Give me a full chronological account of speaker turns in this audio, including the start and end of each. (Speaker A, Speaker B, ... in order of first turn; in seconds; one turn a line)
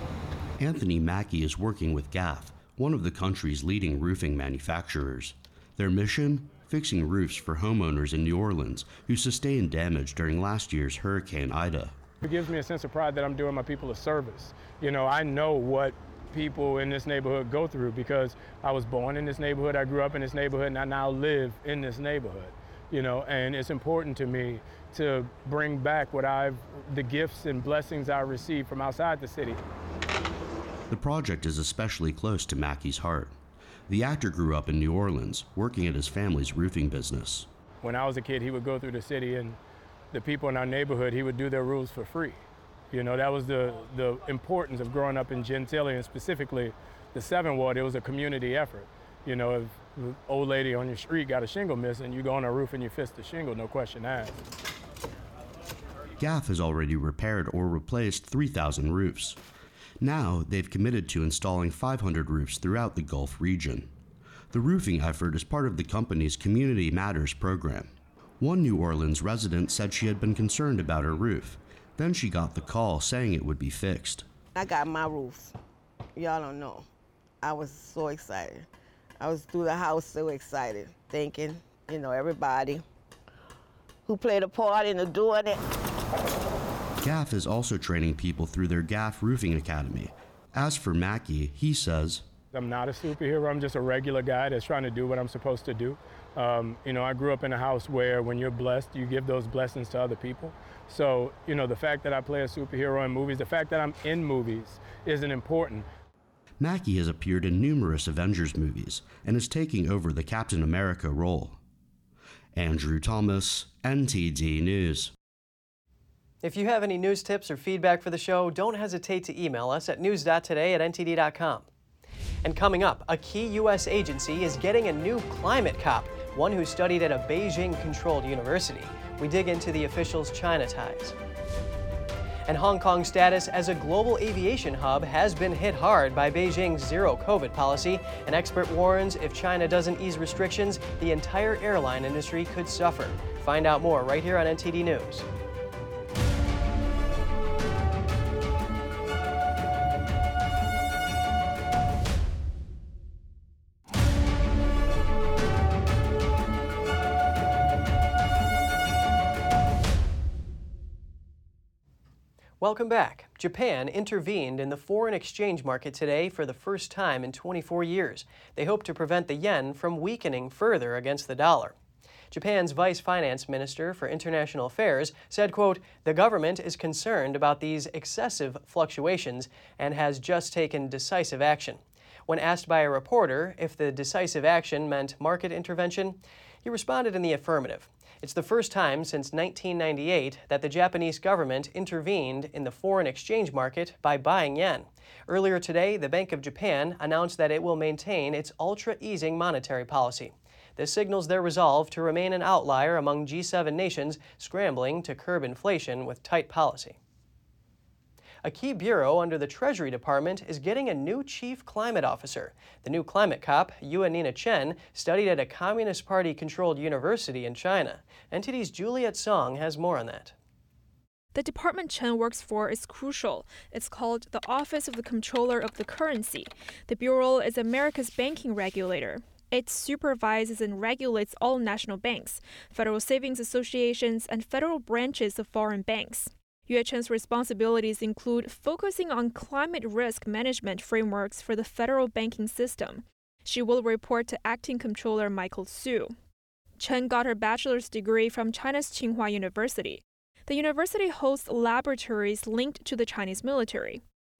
Speaker A: 0.6-12.0
Speaker B: 12.2-29.6
Speaker A: 30.9-33.4
Speaker A: 33.9-37.5
Speaker B: 37.8-39.6
Speaker B: 40.1-54.4
Speaker A: 56.2-59.4
Speaker A: 60.0-63.9
Speaker A: 64.5-74.2
Speaker C: 74.5-75.5
Speaker C: 76.2-76.9
Speaker C: 77.4-78.7
Speaker C: 79.2-82.8
Speaker C: 84.1-85.6
Speaker A: 87.0-92.2
Speaker B: 92.5-105.9
Speaker A: 106.6-111.6
Speaker A: 112.5-115.1
Speaker D: 116.4-121.7
Speaker D: 122.4-131.2
Speaker D: 132.4-145.2
Speaker D: 162.6-171.7
Speaker D: 172.3-207.0
Speaker D: 208.4-220.3
Speaker E: 221.3-246.1
Speaker E: 246.8-254.0